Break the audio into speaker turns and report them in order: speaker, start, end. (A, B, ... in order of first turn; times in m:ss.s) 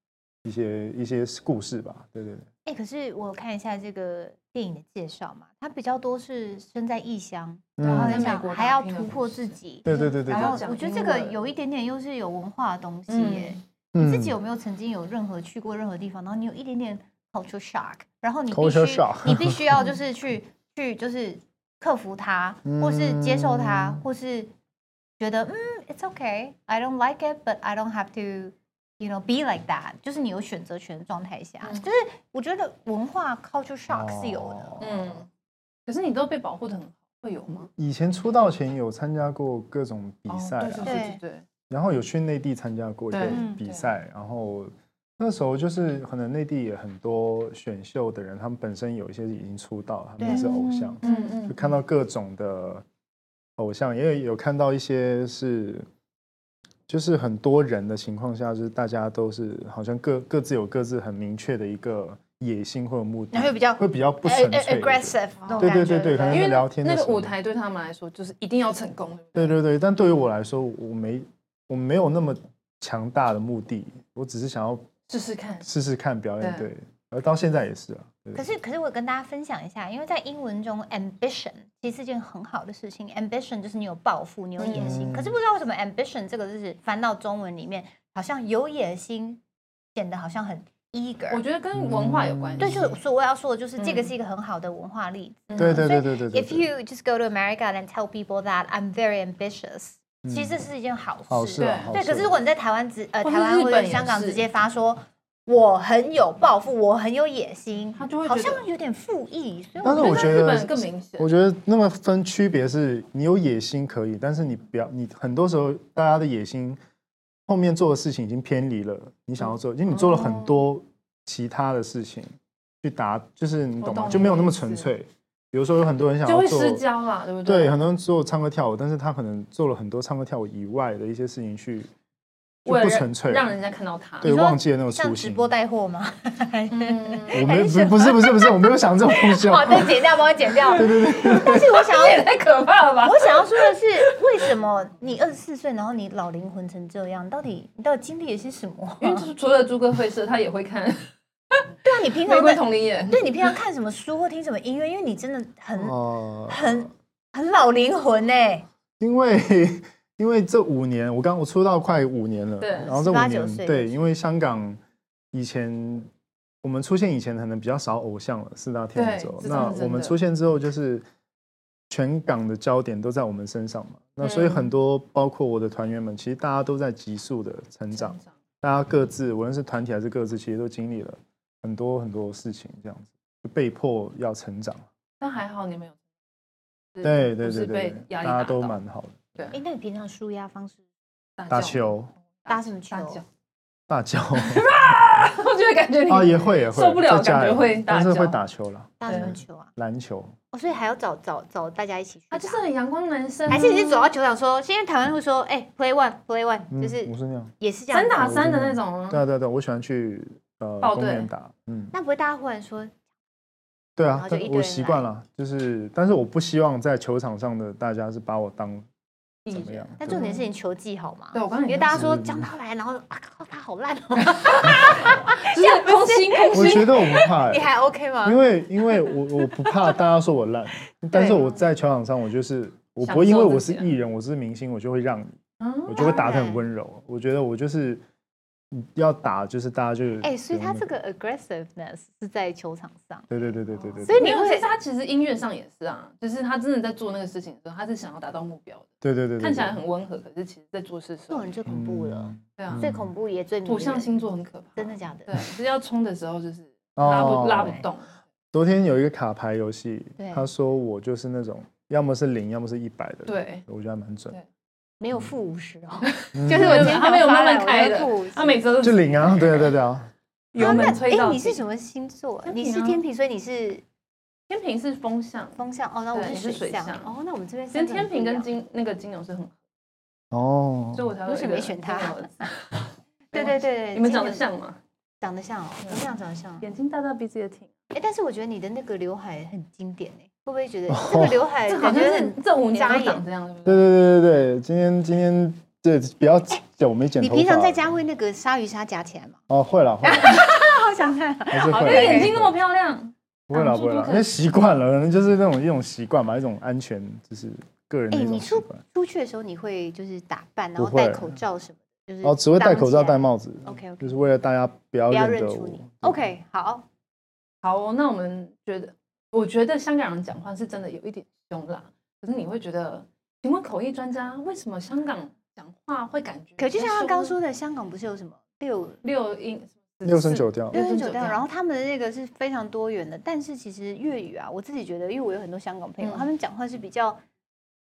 0:00.4-0:02.5 A
0:02.6-0:24.5 B
0:07.8-0:08.3 A
0:07.8-0:11.4 C
0:09.8-0:10.6 A
0:13.1-0:13.6 C
0:13.9-0:14.4 A
0:18.5-0:19.7 A
0:22.6-0:24.0 A
0:25.2-0:34.8 B
0:33.9-0:35.2 A
0:34.8-0:35.3 C
0:35.9-0:37.7 C
0:37.7-0:41.0 A
0:40.3-0:41.4 C
0:40.8-0:41.2 B
0:41.7-0:52.8 A
0:43.1-0:43.9 C
0:43.2-0:43.6 B
0:50.2-0:51.5 B
0:50.2-0:51.7 C
0:53.6-0:55.9 A
0:56.9-1:07.3 A
1:03.3-1:06.5 B
1:05.4-1:09.6 C
1:09.4-1:14.9 A
1:15.1-1:15.7 C
1:15.6-1:18.5 A
1:16.4-1:16.7 C
1:18.3-1:29.4 B
1:24.6-1:25.1 C
1:24.8-1:25.3 A
1:30.0-1:31.4 B
1:31.3-1:32.8 C
1:31.8-1:32.9 A
1:32.6-1:50.4 B
1:33.8-1:34.1 C
1:35.5-1:35.8 C
1:35.6-1:36.7 A
1:40.2-1:40.6 A
1:41.3-1:42.4 A
1:41.6-1:41.9 C
1:43.2-1:44.4 C
1:48.0-1:48.6 C
1:49.8-1:56.8 A
1:49.8-1:51.3 C
1:57.5-2:06.8 A
1:59.9-2:00.6 C
2:03.8-2:04.9 C
2:06.2-2:07.8 C
2:07.4-2:11.9 A
2:12.6-2:13.5 A
2:12.7-2:14.3 C
2:14.2-2:15.5 A
2:14.2-2:18.5 B
2:16.7-2:17.5 C
2:17.3-2:20.0 A
2:19.3-2:22.3 B
2:20.7-2:21.7 A
2:21.3-2:24.0 C
2:23.0-2:29.3 B
2:29.0-2:31.6 C
2:31.8-2:38.6 B
2:32.2-2:33.2 C
2:35.8-2:36.9 A
2:39.0-2:44.8 A
2:42.6-2:42.9 C
2:42.9-2:44.0 B
2:45.3-2:46.1 A
2:46.6-2:51.1 A
2:49.0-2:50.2 C
2:51.9-3:04.9 A
2:54.2-2:54.7 C
2:57.9-2:58.3 C
3:05.2-3:06.0 C
3:07.0-3:08.8 C
3:07.0-3:09.2 A
3:09.5-3:10.8 B
3:11.4-3:11.9 C
3:11.5-3:12.1 A
3:12.4-3:13.2 C
3:12.5-3:13.2 B
3:13.9-3:14.8 A
3:14.4-3:18.4 C
3:16.1-3:20.3 A
3:19.0-3:19.7 B
3:19.1-3:19.4 C
3:20.5-3:22.6 B
3:22.3-3:24.1 C
3:23.5-3:28.4 B
3:26.7-3:27.5 A
3:27.9-3:29.2 C
3:28.2-3:31.9 A
3:30.8-3:31.3 C
3:31.9-3:32.9 B
3:34.0-3:38.9 A
3:34.1-3:35.0 B
3:39.5-3:40.4 C
3:39.5-3:40.2 A
3:40.0-3:48.4 B
3:41.3-3:42.0 C
3:41.9-3:42.5 A
3:44.5-3:47.2 C
3:46.5-3:47.7 A
3:48.2-3:58.0 A
3:51.1-3:51.5 B
3:53.0-3:53.9 C
3:55.6-3:56.0 C
3:56.0-3:56.6 B
3:58.7-4:00.9 A
4:00.2-4:03.3 B
4:03.3-4:04.3 A
4:04.0-4:04.7 B
4:04.0-4:08.9 C
4:09.0-4:09.7 A
4:09.4-4:11.5 C
4:11.3-4:14.1 B
4:11.7-4:13.1 A
4:12.6-4:12.8 C
4:13.6-4:18.1 C
4:14.8-4:15.3 B
4:17.0-4:17.8 A
4:18.5-4:24.4 A
4:20.2-4:20.5 B
4:23.3-4:23.6 C
4:25.0-4:28.6 B
4:26.2-4:29.7 C
4:26.3-4:27.0 A
4:28.8-4:30.1 A
4:30.5-4:31.6 C
4:30.6-4:33.8 B
4:32.5-4:33.0 C
4:34.5-4:35.6 C
4:35.6-4:38.5 B
4:36.1-4:37.1 C
4:37.7-4:39.6 C
4:40.3-4:41.1 A
4:41.0-4:42.5 C
4:41.3-4:42.5 B
4:43.3-4:44.4 B
4:43.3-4:44.8 C
4:45.2-4:46.7 B
4:46.6-4:47.7 C
4:47.9-4:53.2 B
4:50.9-4:51.4 A
4:51.7-4:53.9 C
4:53.6-4:57.8 A
4:57.2-4:59.4 B
4:59.5-5:00.4 A
5:00.0-5:02.4 B
5:01.5-5:02.5 A
5:01.7-5:04.3 C
5:03.5-5:08.8 A
5:08.1-5:14.2 B
5:10.8-5:11.4 A
5:12.2-5:16.2 A
5:15.1-5:16.8 B
5:17.6-5:27.3 C
5:26.6-5:29.0 B
5:29.0-5:31.4 C
5:30.0-5:30.8 A
5:30.7-5:37.2 B
5:36.0-5:36.3 C